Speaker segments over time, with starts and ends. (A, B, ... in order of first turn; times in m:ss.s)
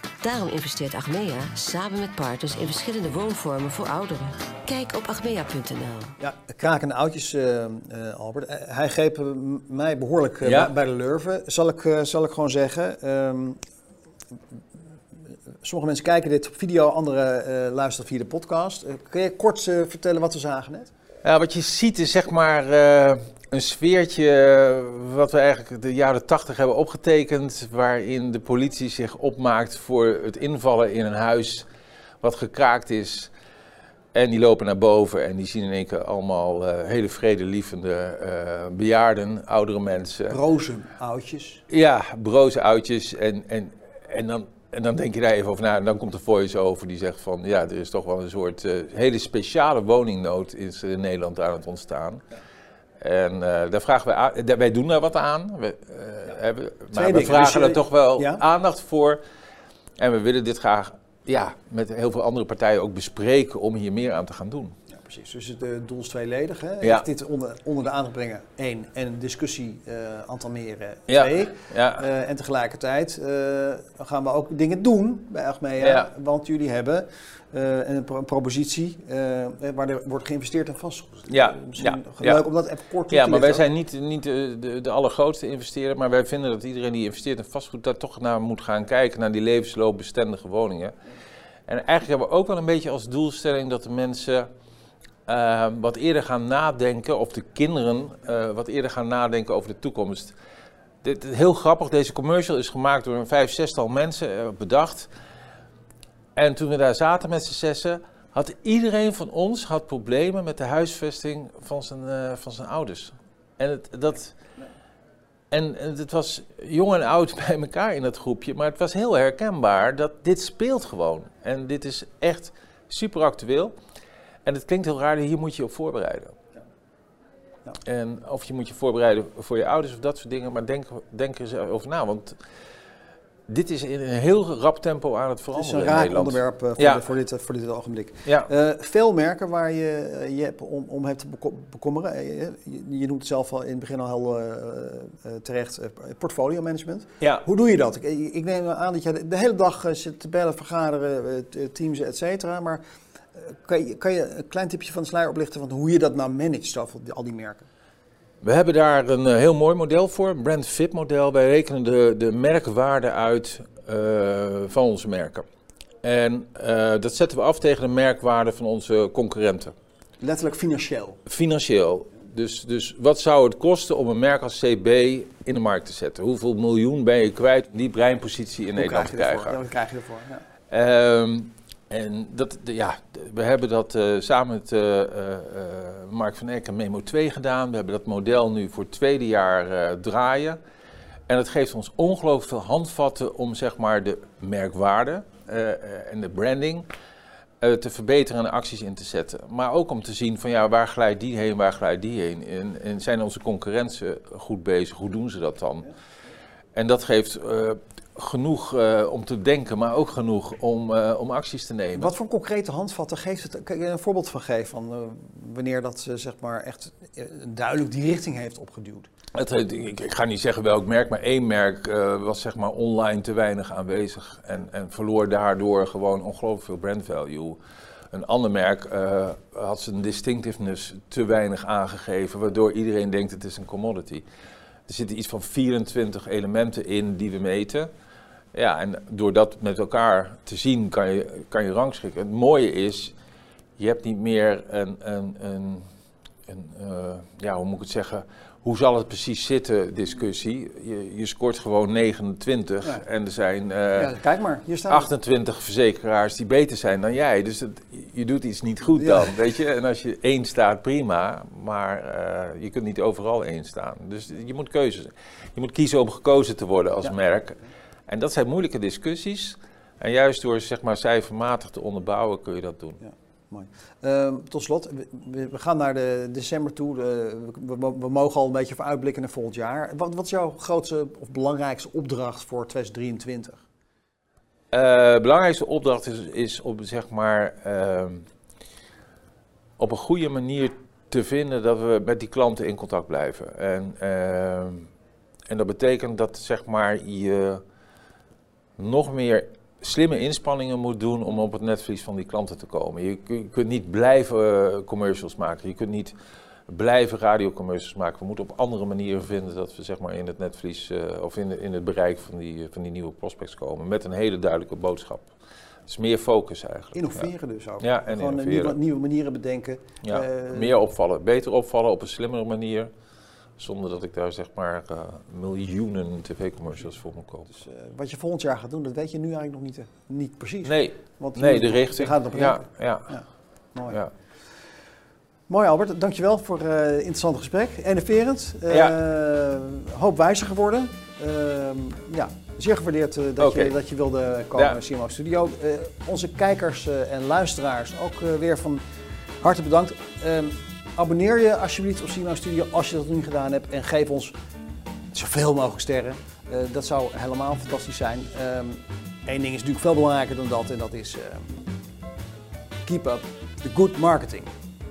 0:00.2-0:06.1 A
0:06.2-0:13.6 B
0:10.4-0:10.7 C
0:15.6-0:20.9 B
0:21.2-0:31.7 C
0:32.2-0:33.3 C
0:34.1-0:40.4 C
0:40.3-0:41.6 B
0:41.7-0:52.2 C
0:53.0-0:59.2 C
0:56.9-0:58.4 B
1:00.0-1:04.8 C
1:04.9-1:23.6 B
1:11.1-1:12.1 C
1:15.8-1:16.1 C
1:21.3-1:22.5 C
1:23.1-1:31.0 C
1:31.7-1:34.5 C
1:35.3-1:40.4 C
1:41.0-1:45.1 C
1:46.4-1:54.4 C
1:55.5-2:03.8 C
2:04.4-2:06.4 C
2:07.8-2:12.4 C
2:13.5-2:17.0 C
2:15.5-2:32.8 B
2:33.4-2:37.7 B
2:38.4-2:45.5 C
2:46.0-2:49.7 C
2:50.2-2:51.2 B
2:51.3-2:59.6 C
2:58.8-3:00.4 B
3:00.7-3:10.6 C
3:11.3-3:16.9 C
3:17.6-3:25.9 C
3:26.8-3:32.1 C
3:32.0-3:39.1 B
3:39.3-3:47.6 C
3:48.1-3:54.3 C
3:54.9-3:57.9 C
3:58.5-4:03.2 C
4:03.8-4:05.9 C
4:06.5-4:14.2 C
4:14.0-4:15.1 B
4:14.9-4:33.0 C
4:19.0-4:19.3 B
4:33.0-4:43.6 B
4:44.7-4:48.3 C
4:49.8-4:54.9 C
4:55.5-4:57.6 C
4:58.8-5:06.1 C
5:06.7-5:15.3 C
5:15.9-5:18.8 C
5:17.0-5:20.7 B
5:20.0-5:22.9 C
5:23.6-5:27.5 C
5:27.5-5:34.0 B
5:30.6-5:33.1 C
5:35.5-5:48.8 B
5:38.7-5:39.0 C
5:43.4-5:43.8 C
5:49.4-5:54.4 B
5:55.1-6:01.6 B
6:02.9-6:04.5 B